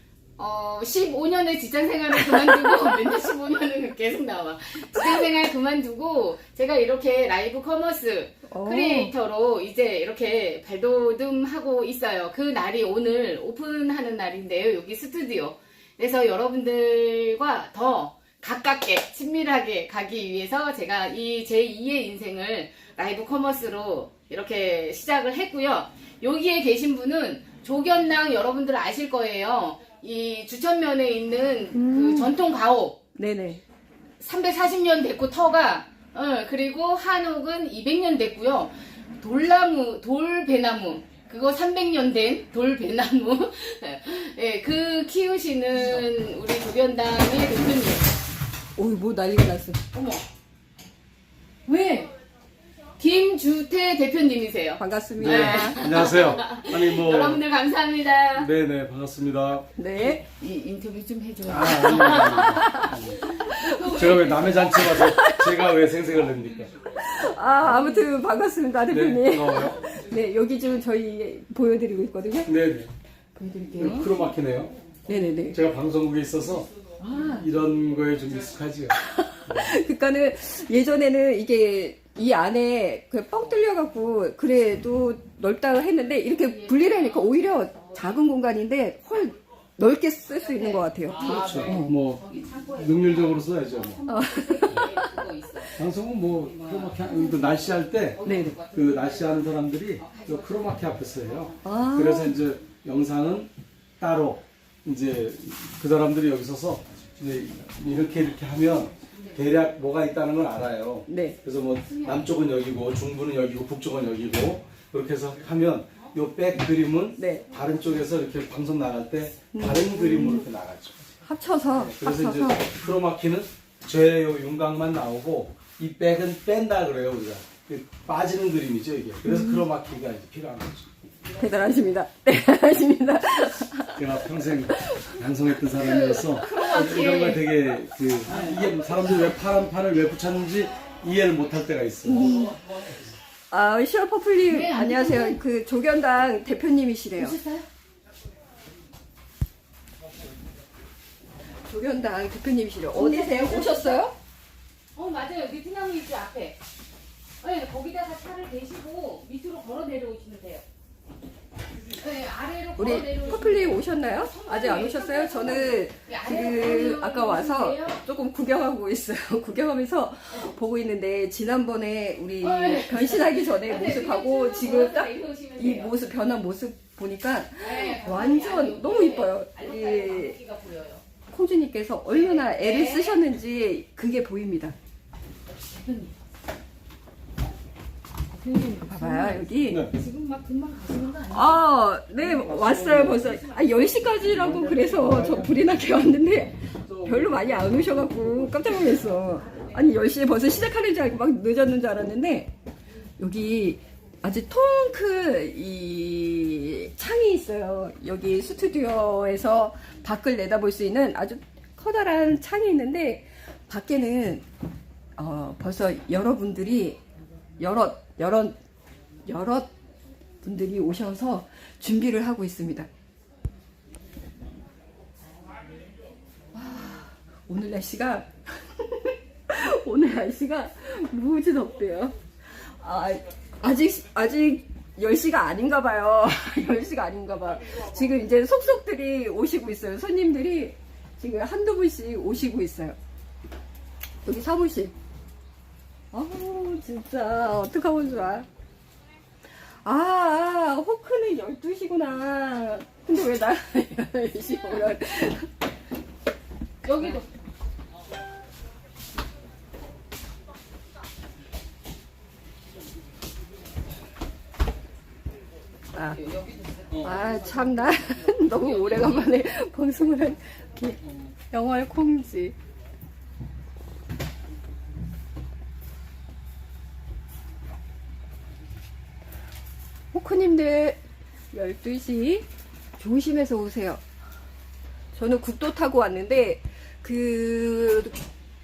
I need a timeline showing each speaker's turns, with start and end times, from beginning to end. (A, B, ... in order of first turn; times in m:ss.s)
0:00.4-0:33.0 A
0:02.3-0:03.2 B
0:08.5-0:09.1 B
0:31.7-0:32.4 B
0:33.2-0:33.6 B
0:34.2-0:48.1 A
0:48.8-0:49.8 B
0:49.9-0:50.2 A
0:51.7-0:52.1 A
0:53.0-0:58.5 A
0:54.8-0:55.8 B
0:55.2-0:57.4 C
0:58.4-0:59.8 C
0:59.8-1:00.2 B
0:59.9-1:05.0 A
1:01.4-1:03.2 C
1:02.0-1:03.9 B
1:03.8-1:06.9 C
1:04.8-1:05.7 B
1:06.9-1:12.6 B
1:07.6-1:08.2 A
1:08.9-1:09.9 C
1:12.5-1:12.9 C
1:13.4-1:14.1 B
1:13.8-1:14.8 C
1:15.1-1:15.6 B
1:15.5-1:16.7 C
1:17.0-1:17.5 B
1:17.2-1:19.8 C
1:18.9-1:32.0 B
1:26.2-1:28.2 A
1:30.4-1:35.7 A
1:31.2-1:34.0 C
1:34.1-1:35.1 B
1:35.8-2:01.0 C
1:36.3-1:41.6 A
1:38.2-1:38.6 B
1:41.6-1:42.4 B
1:49.1-1:49.4 A
1:51.1-1:51.4 B
1:51.8-1:52.3 A
1:57.2-1:57.5 B
1:59.5-2:00.5 B
2:01.2-2:02.6 B
2:01.8-2:10.9 C
2:09.2-2:09.6 B
2:11.4-2:15.2 B
2:14.0-2:22.6 C
2:15.8-2:17.6 A
2:16.4-2:17.4 B
2:18.3-2:18.6 A
2:22.0-2:22.6 B
2:23.5-2:27.4 B
2:24.5-2:25.4 A
2:27.2-2:27.7 A
2:31.7-2:34.2 B
2:32.9-2:34.0 A
2:35.0-2:36.6 A
2:37.4-2:40.6 A
2:41.9-2:48.0 A
2:42.8-3:00.4 B
2:52.4-2:55.9 A
2:57.6-3:01.0 A
3:01.3-3:04.8 B
3:02.1-3:03.2 A
3:05.5-3:06.1 A
3:08.3-3:11.7 A
3:08.8-3:09.9 B
3:09.7-3:09.9 C
3:11.3-3:22.5 B
3:12.2-3:13.5 C
3:13.4-3:13.9 A
3:14.2-3:15.6 C
3:16.8-3:18.7 C
3:23.2-3:34.4 B
3:35.2-3:37.0 B
3:37.6-3:38.6 B
3:39.3-3:39.7 B
3:40.4-3:42.9 B
3:46.5-4:03.0 B
4:04.2-4:04.9 B
4:06.1-4:08.5 B
4:09.8-4:15.5 B
4:16.8-4:17.3 A
4:25.9-4:26.2 B
4:26.0-4:29.3 A
4:27.0-4:31.0 B
4:31.5-4:32.6 B
4:40.1-4:41.0 B
4:41.5-4:42.5 B
4:43.0-4:44.0 B
4:45.1-4:48.2 B